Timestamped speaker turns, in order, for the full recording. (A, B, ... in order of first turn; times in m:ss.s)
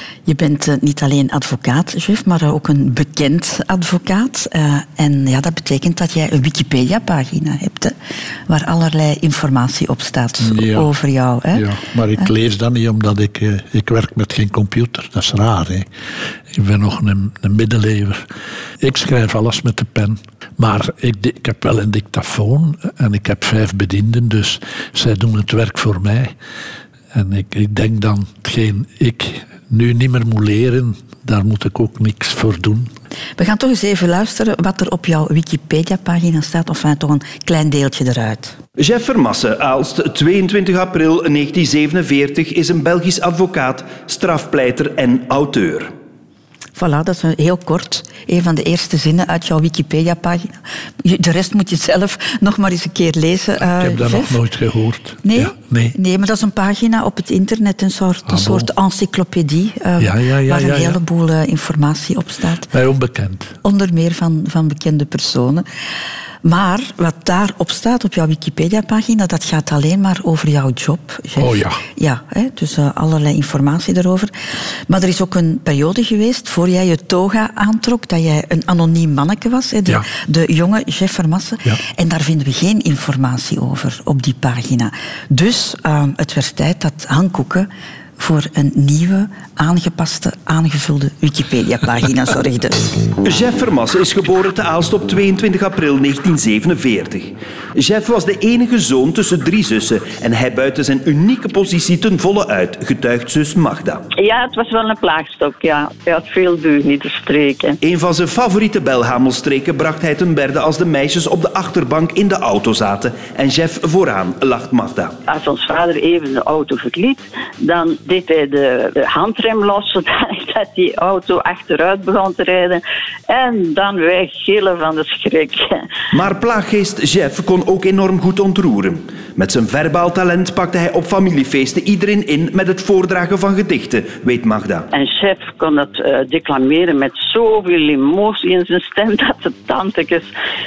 0:00.2-0:07.9 A
0:08.5-0:11.6 A
0:10.4-0:10.9 B
0:11.5-0:15.9 B
0:16.5-0:18.2 B
0:18.8-0:26.3 B
0:27.1-0:32.9 B
0:33.4-0:38.6 A
0:38.8-0:45.9 C
0:46.8-0:54.4 A
0:53.7-0:56.0 B
0:55.2-1:02.7 A
0:58.3-0:58.7 B
1:00.0-1:01.0 B
1:02.7-1:03.6 B
1:03.6-1:05.6 A
1:06.4-1:14.3 A
1:11.4-1:11.8 B
1:14.9-1:32.8 A
1:33.2-1:44.0 C
1:44.2-1:47.8 D
1:47.8-1:55.2 C
1:55.3-2:05.9 D
2:06.1-2:14.9 C
2:14.9-2:20.3 D